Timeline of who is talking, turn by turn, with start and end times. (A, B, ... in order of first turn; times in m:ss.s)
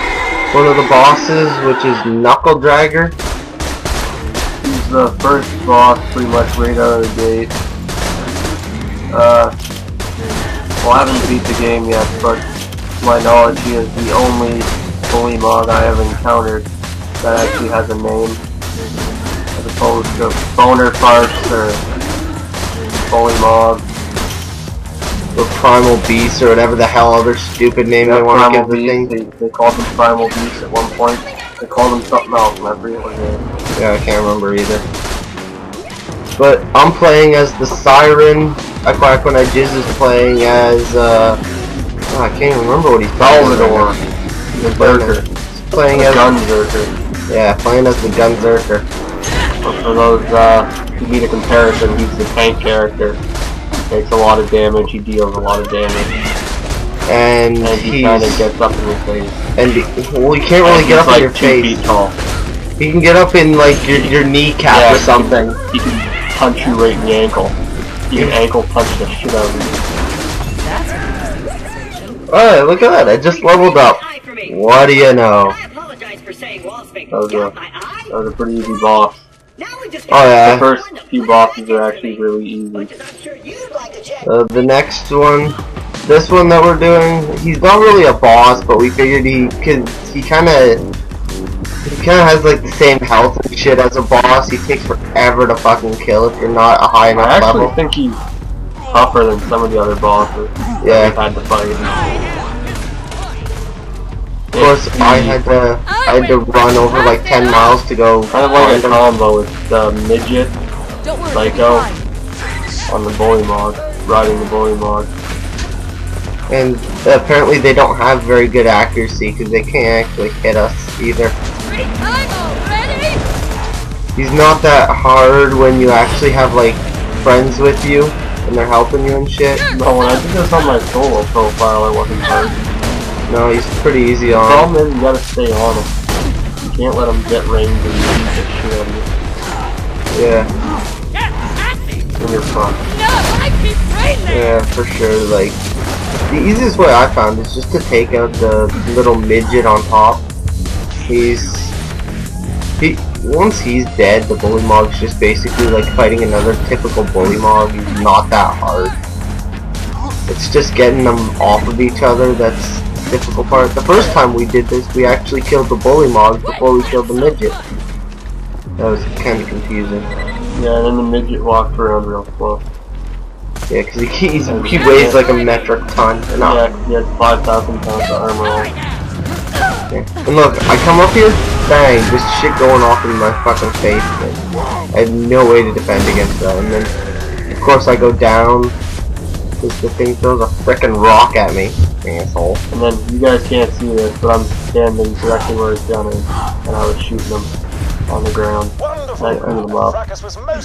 0:00.5-0:03.2 A
0:04.6-0:07.5 B
0:09.1-0:09.5 B
0:10.8-0:12.4 B
0:13.0-0:16.7 B
0:17.2-0:18.4 B
0:19.5-0:21.8 B
0:23.1-0:23.8 B
0:25.3-0:29.1 A
0:28.0-0:33.4 B
0:33.8-0:34.8 A
0:36.4-0:41.4 A
0:42.1-0:44.0 A
0:43.2-0:44.0 B
0:44.6-0:45.2 B
0:44.8-0:46.3 A
0:45.9-0:46.9 B
0:47.3-0:48.9 A
0:49.6-0:53.2 B
0:53.9-0:56.1 B
0:57.1-0:58.4 A
0:57.6-0:59.4 B
0:59.6-1:01.8 A
1:00.6-1:02.2 B
1:02.8-1:05.6 A
1:04.7-1:07.6 B
1:08.1-1:09.7 B
1:12.3-1:15.6 A
1:17.1-1:17.6 B
1:18.1-1:19.3 B
1:20.1-1:20.6 A
1:20.4-1:22.9 B
1:24.2-1:30.8 A
1:31.8-1:37.7 A
1:37.2-1:38.2 B
1:38.9-1:42.2 B
1:40.8-1:41.2 A
1:44.5-1:45.4 B
1:44.6-1:49.0 A
1:48.3-1:50.5 B
1:51.3-1:51.9 B
1:52.9-1:55.1 B
1:56.5-2:01.4 A
2:04.2-2:09.6 A
2:09.7-2:12.6 B
2:13.3-2:14.7 A
2:14.4-2:15.9 B
2:16.6-2:19.1 B
2:20.1-2:20.5 A
2:22.2-2:22.8 B
2:24.3-2:25.6 A
2:26.3-2:30.2 A
2:31.1-2:31.7 A
2:32.8-2:38.9 A
2:40.3-2:47.6 A
2:48.8-2:50.1 A
2:50.5-2:52.6 B
2:53.7-2:56.6 A
2:54.5-2:55.2 B
2:56.3-2:58.7 B
2:59.9-3:04.4 A
3:04.9-3:06.9 A
3:07.5-3:08.8 A
3:09.6-3:12.6 A
3:12.7-3:17.5 B
3:18.1-3:20.0 B
3:19.3-3:19.5 A